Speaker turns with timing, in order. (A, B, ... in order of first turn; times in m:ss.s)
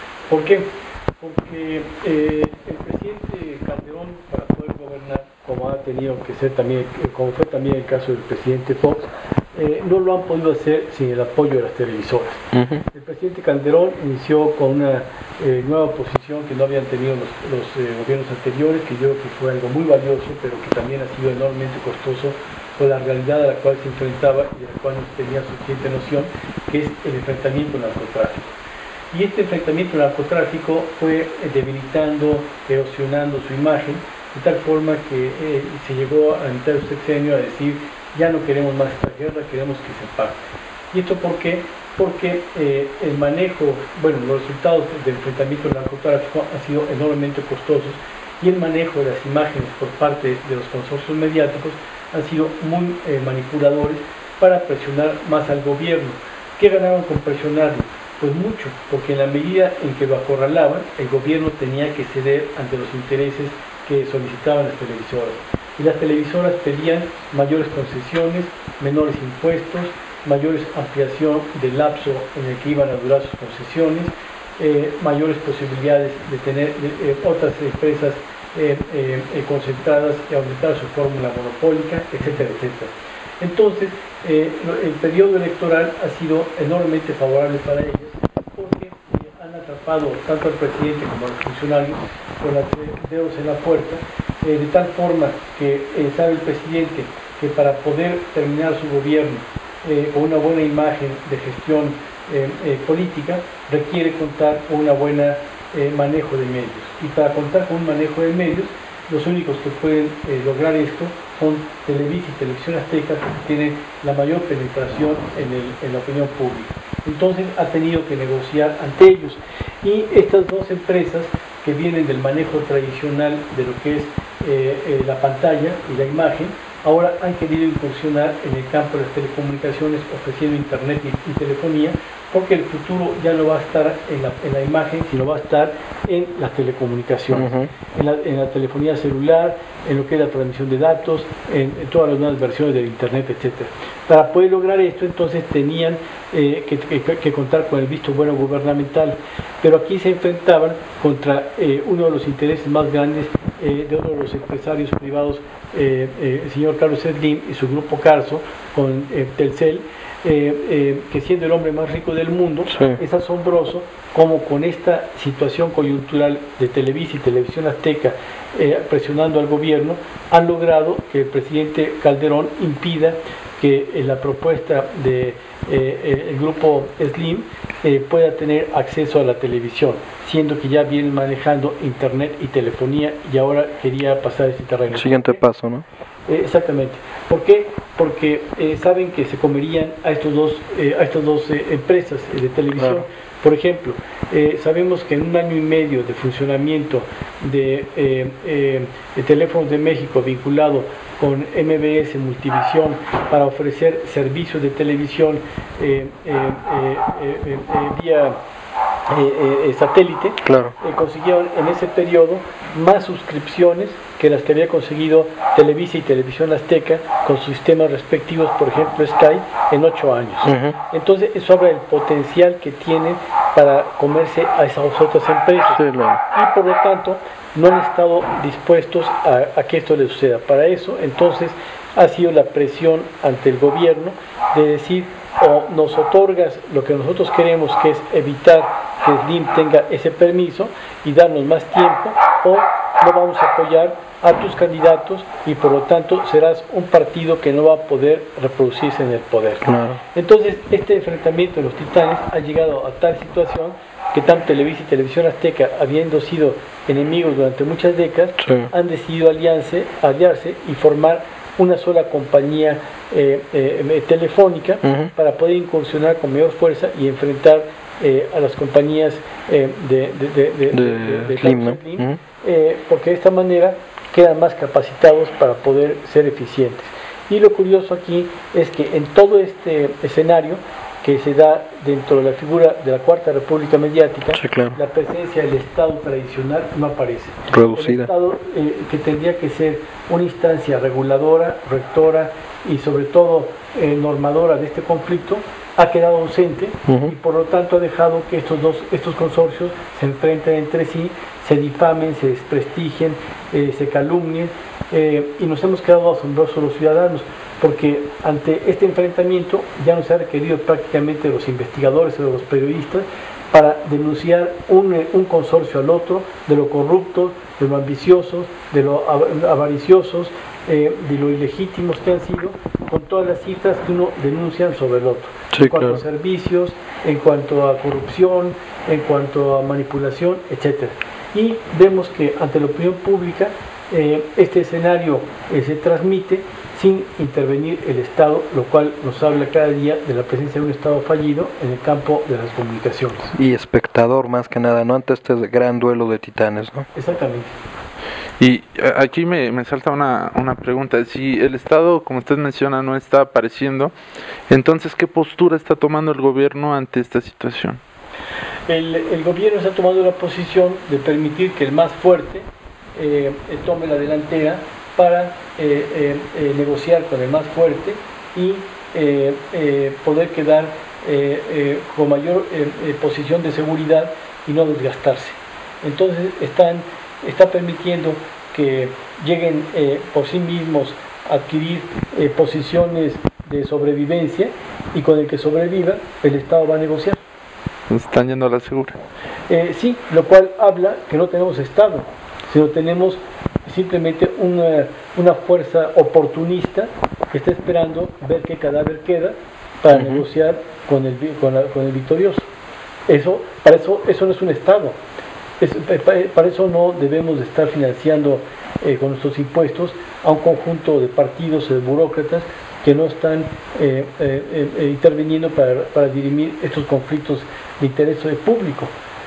0:00.3-0:28.6 A
0:12.5-0:12.8 B
0:29.1-3:05.4 A
2:17.3-2:17.7 B
2:42.7-2:43.0 B
3:04.9-3:05.8 B
3:06.3-3:28.4 A
3:12.8-3:13.0 B
3:29.1-5:43.3 A
3:30.4-3:30.7 B
3:40.4-3:40.8 B
3:45.7-3:46.2 B
4:09.6-4:10.0 B
4:18.4-4:18.7 B
4:24.8-4:25.1 B
4:30.7-4:32.2 B
4:44.3-4:44.8 B
4:47.5-4:48.1 B
4:56.9-4:57.1 B
5:25.5-5:26.0 B
5:43.3-5:46.9 B
5:46.9-5:47.5 A
5:48.4-5:53.9 C
5:54.5-5:57.8 C
5:58.7-6:27.2 A
6:27.9-6:29.0 C
6:29.5-6:42.5 A
6:39.9-6:40.2 B
6:43.1-6:45.0 A
6:45.6-6:58.9 A